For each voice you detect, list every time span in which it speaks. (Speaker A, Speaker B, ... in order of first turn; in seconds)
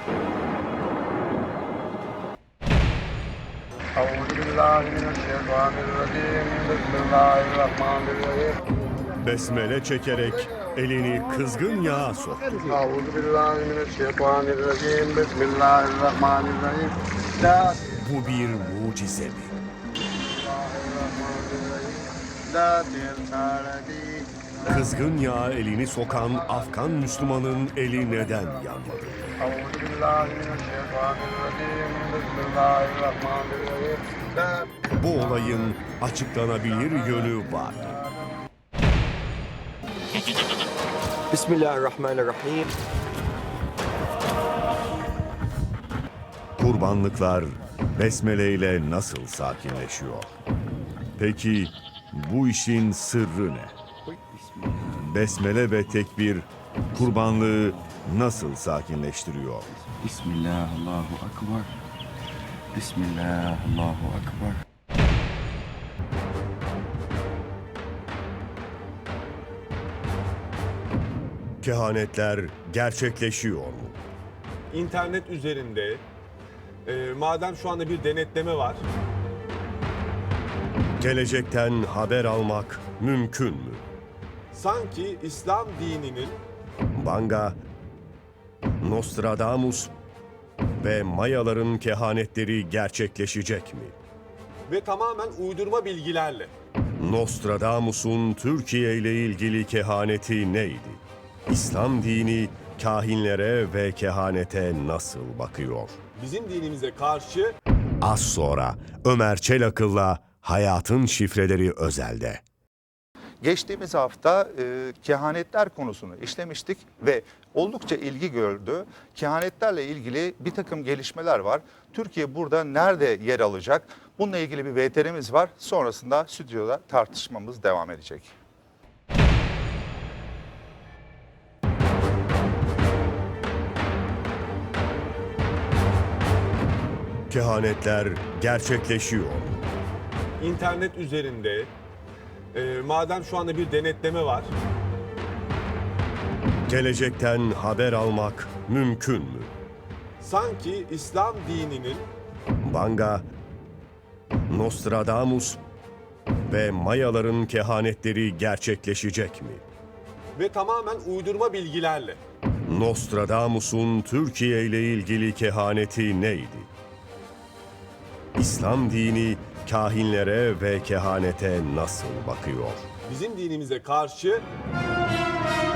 Speaker A: 4.0-9.5, 10.1-18.7, 20.2-25.2, 26.1-28.9, 29.4-35.7, 36.6-38.3
Speaker B: 9.2-12.8, 18.0-19.6, 24.7-29.4, 35.0-37.9, 46.6-50.3, 51.2-53.8, 55.0-59.7, 71.6-74.0, 81.0-83.8, 86.9-87.6, 88.8-89.9, 90.8-94.0, 97.0-106.0, 108.0-112.4, 137.3-139.6, 146.7-149.5, 152.6-153.3, 154.5-155.6, 156.5-159.6, 162.7-166.7, 168.4-172.9
Speaker C: 41.3-42.7, 54.1-55.5, 59.9-61.7, 62.7-64.6
Speaker D: 74.7-76.0, 76.8-78.8, 84.5-86.4, 94.7-96.5, 106.2-107.5, 140.4-141.7, 142.5-144.5, 150.2-152.1, 160.4-162.2, 173.1-174.4
Speaker E: 113.4-128.3